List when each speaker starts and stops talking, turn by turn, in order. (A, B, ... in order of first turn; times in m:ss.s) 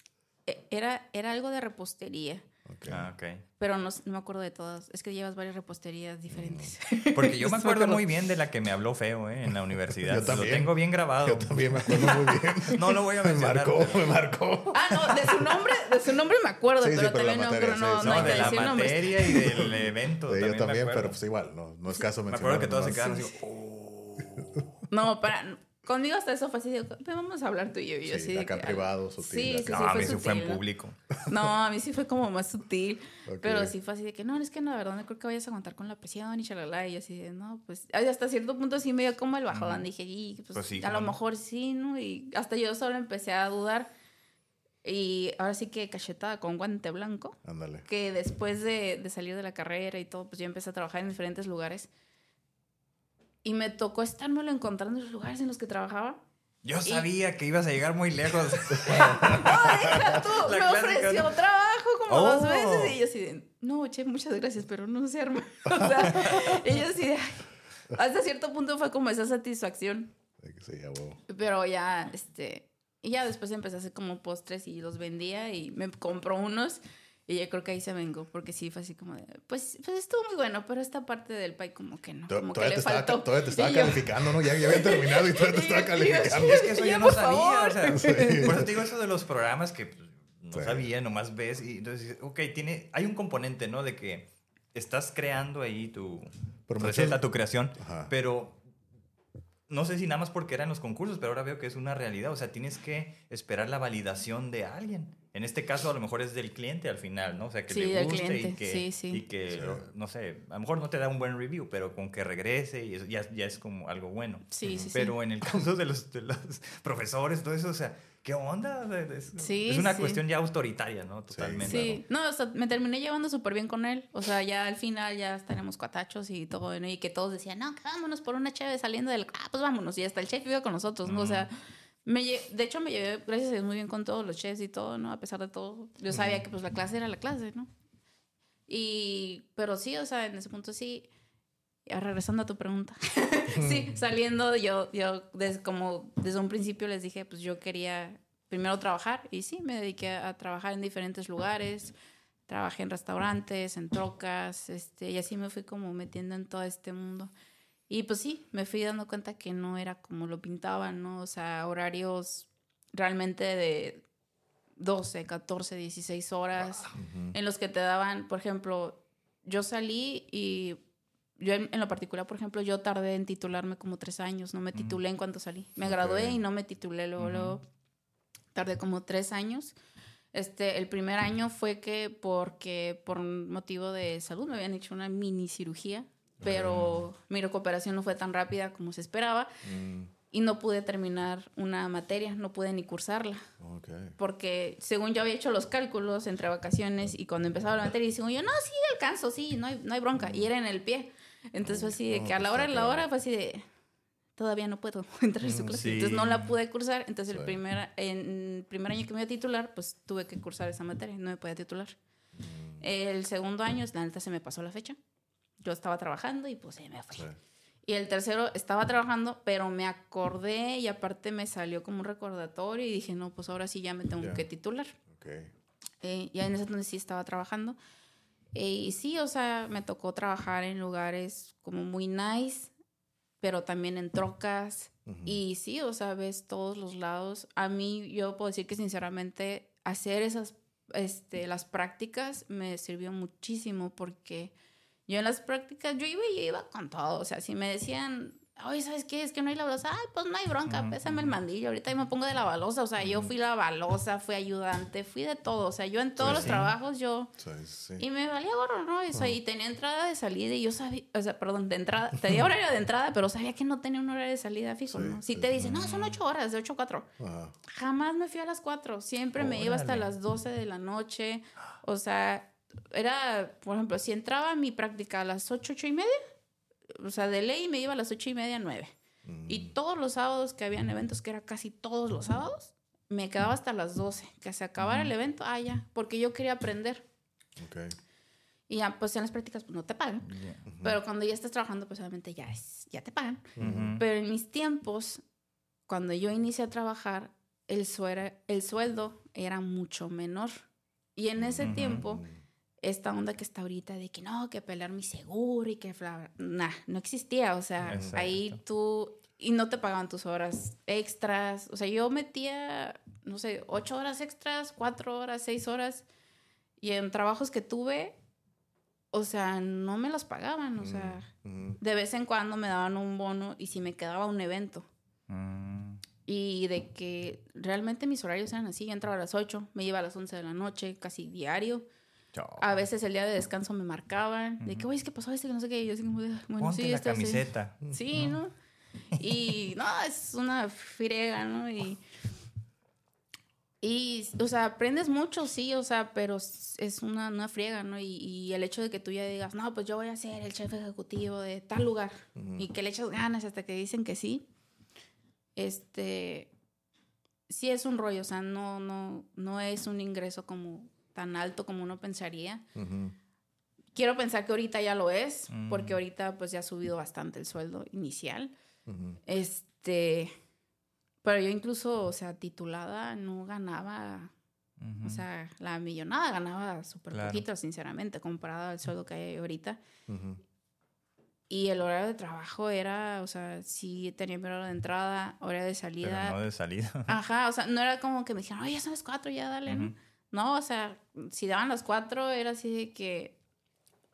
0:00.4-0:02.4 A
0:02.6-0:03.1 B
0:02.9-0:03.4 C
0:03.6-0:08.0 A
0:06.3-0:06.7 B
0:07.1-0:14.2 C
0:10.1-0:15.6 B
0:14.7-0:19.6 A
0:16.8-0:23.2 B
0:18.0-0:21.2 C
0:22.2-0:24.7 C
0:23.0-0:23.2 A
0:24.4-0:24.6 B
0:24.9-0:30.6 A
0:28.0-0:30.2 B
0:29.7-0:31.0 C
0:31.2-0:43.9 A
0:33.2-0:33.7 B
0:39.5-0:39.8 C
0:40.5-0:41.2 C
0:44.8-0:51.9 A
0:47.4-0:47.8 B
0:53.4-0:56.2 A
0:56.6-1:01.4 C
0:58.7-1:00.2 B
0:58.7-1:10.1 A
1:02.1-1:03.0 C
1:06.0-1:06.6 C
1:10.4-1:11.2 B
1:11.3-1:28.6 A
1:22.3-1:26.7 B
1:26.3-1:38.6 C
1:27.9-1:28.8 B
1:30.5-1:30.9 B
1:36.7-1:37.2 B
1:37.8-1:38.1 B
1:39.7-2:02.0 C
1:47.7-1:49.2 A
1:49.5-1:49.8 B
1:54.5-1:55.2 A
1:54.6-1:54.9 B
1:59.4-2:00.2 A
2:01.3-2:02.0 B
2:01.6-2:11.5 A
2:11.0-2:11.5 C
2:12.0-2:17.7 A
2:16.1-2:16.4 B
2:18.7-2:21.1 A
2:21.8-2:31.9 A
2:23.5-2:23.9 B
2:32.5-2:37.3 A
2:37.9-2:44.0 A
2:44.8-2:50.8 A
2:46.9-2:47.4 B
2:51.4-2:57.6 A
2:54.7-2:55.0 C
2:55.8-2:56.4 B
2:57.2-2:57.6 C
2:58.5-2:59.7 A
3:00.3-3:09.5 A
3:06.4-3:07.0 B
3:06.6-3:07.0 C
3:09.6-3:10.1 B
3:10.3-3:13.4 A
3:13.6-3:14.2 B
3:14.2-3:23.6 A
3:20.2-3:20.4 B
3:21.6-3:23.1 B
3:24.4-3:32.0 A
3:25.5-3:25.8 B
3:25.5-3:26.5 C
3:27.3-3:27.6 B
3:32.4-3:32.8 B
3:32.8-3:35.0 A
3:35.6-3:37.2 A
3:37.8-3:45.0 A
3:45.1-3:45.5 B
3:46.0-3:47.8 A
3:48.5-3:52.7 A
3:53.4-4:04.5 A
3:55.0-3:55.4 B
4:05.1-4:17.3 A
4:10.7-4:11.4 C
4:13.0-4:13.3 B
4:16.2-4:16.7 B
4:16.2-4:16.7 C
4:17.4-4:18.0 B
4:18.0-4:27.1 A
4:24.9-4:25.8 B
4:25.6-4:26.2 C
4:27.2-4:27.5 B
4:27.7-4:36.2 A
4:29.4-4:30.1 C
4:36.9-4:38.9 A
4:39.2-4:39.7 B
4:39.5-4:47.0 A
4:44.8-4:45.1 C
4:47.6-4:48.0 B
4:48.7-4:50.3 A
4:50.2-4:50.6 C
4:50.6-4:51.0 B
4:50.8-4:55.2 A
4:53.6-4:54.0 B
4:53.6-4:54.0 C
4:55.9-5:00.6 A
5:01.2-5:02.2 A
5:01.4-5:02.4 B
5:01.6-5:02.1 C
5:02.8-5:16.0 A
5:07.8-5:08.6 C
5:07.9-5:08.3 B
5:16.8-5:18.2 A
5:19.1-5:21.3 A
5:20.8-5:21.8 B
5:21.8-5:24.9 A
5:25.3-5:26.0 C
5:26.2-5:31.8 A
5:32.3-5:32.6 B
5:32.6-5:38.5 A
5:34.6-5:34.9 C
5:36.6-5:37.8 C
5:37.8-5:38.4 B
5:39.1-5:42.0 A
5:43.8-5:54.5 A
5:52.3-5:52.7 B
5:55.6-5:56.5 A
5:57.5-6:02.6 A
6:02.7-6:03.1 B
6:03.9-6:08.5 A
6:05.5-6:06.0 C
6:08.9-6:09.2 B
6:09.2-6:10.3 A
6:11.2-6:14.3 A
6:14.8-6:15.2 C
6:15.0-6:19.8 A
6:17.1-6:17.4 C
6:20.1-6:20.4 B
6:21.5-6:26.4 A
6:26.0-6:27.2 C
6:27.1-6:33.4 A
6:29.7-6:29.9 C